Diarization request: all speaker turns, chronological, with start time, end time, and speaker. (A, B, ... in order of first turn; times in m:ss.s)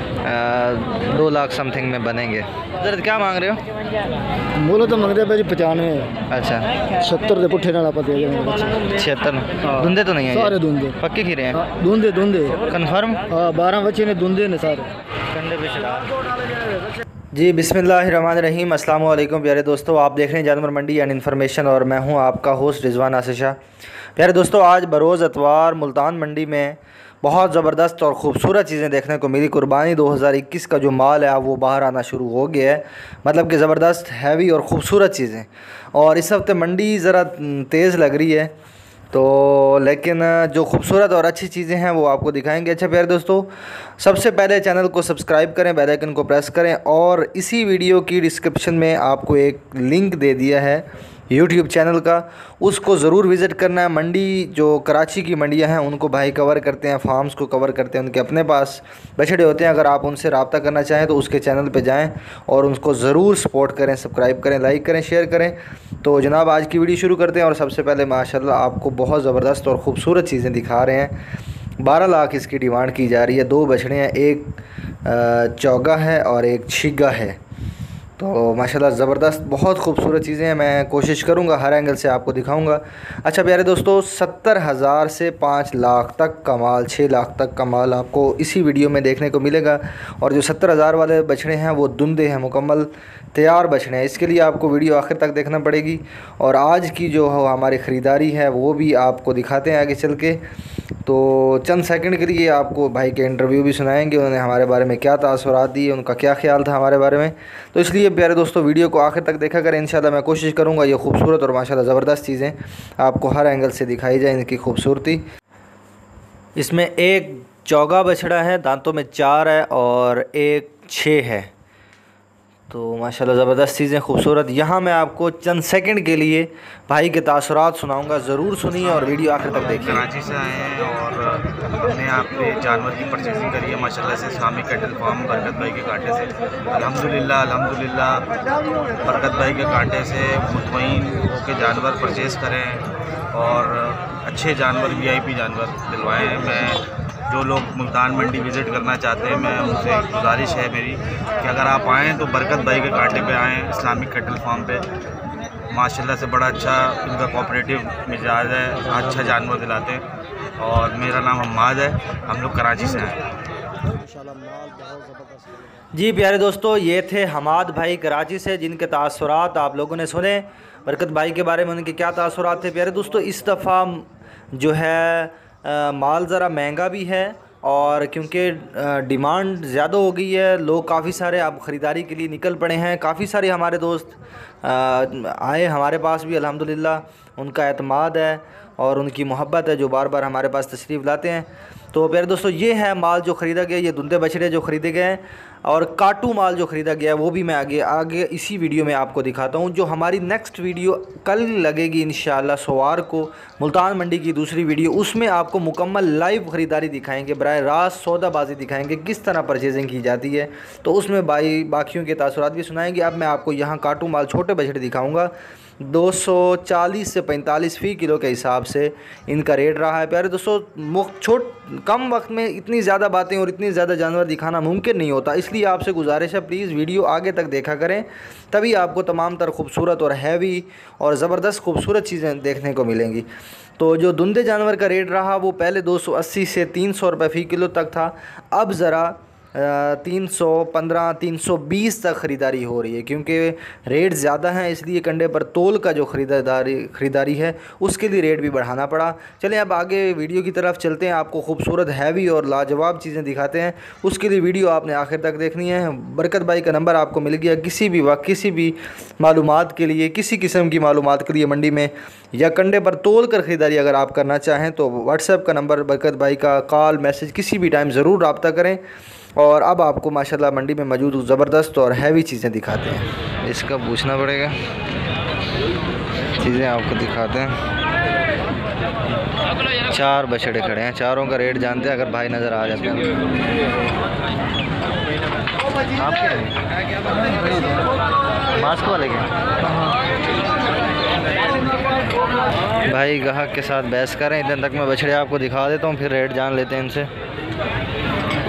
0:00.2-0:03.6 A
0:04.6-0:06.1 B
0:06.3-0:06.7 A
0:07.0-0:08.8 B
0:08.9-0:11.6 A
0:10.4-0:11.0 B
0:11.6-0:12.6 B
0:12.7-0:13.2 A
0:13.3-0:14.9 B
0:15.3-0:16.1 A
0:17.3-0:23.6 A
0:24.2-0:38.5 A
0:39.1-1:11.2 A
1:11.8-1:17.4 A
1:18.2-1:40.4 A
1:41.1-1:55.2 A
1:56.6-2:01.5 A
2:02.7-2:10.1 A
2:09.5-2:18.3 C
2:19.0-2:34.9 C
2:35.7-2:40.0 C
2:40.6-2:43.2 C
2:44.2-2:45.3 B
2:45.9-3:53.3 A
3:53.8-4:28.8 A
4:29.4-4:34.6 A
4:36.4-4:37.6 A
4:39.9-4:43.2 A
4:46.0-4:46.5 A
4:48.6-4:49.3 A
4:52.8-4:57.1 A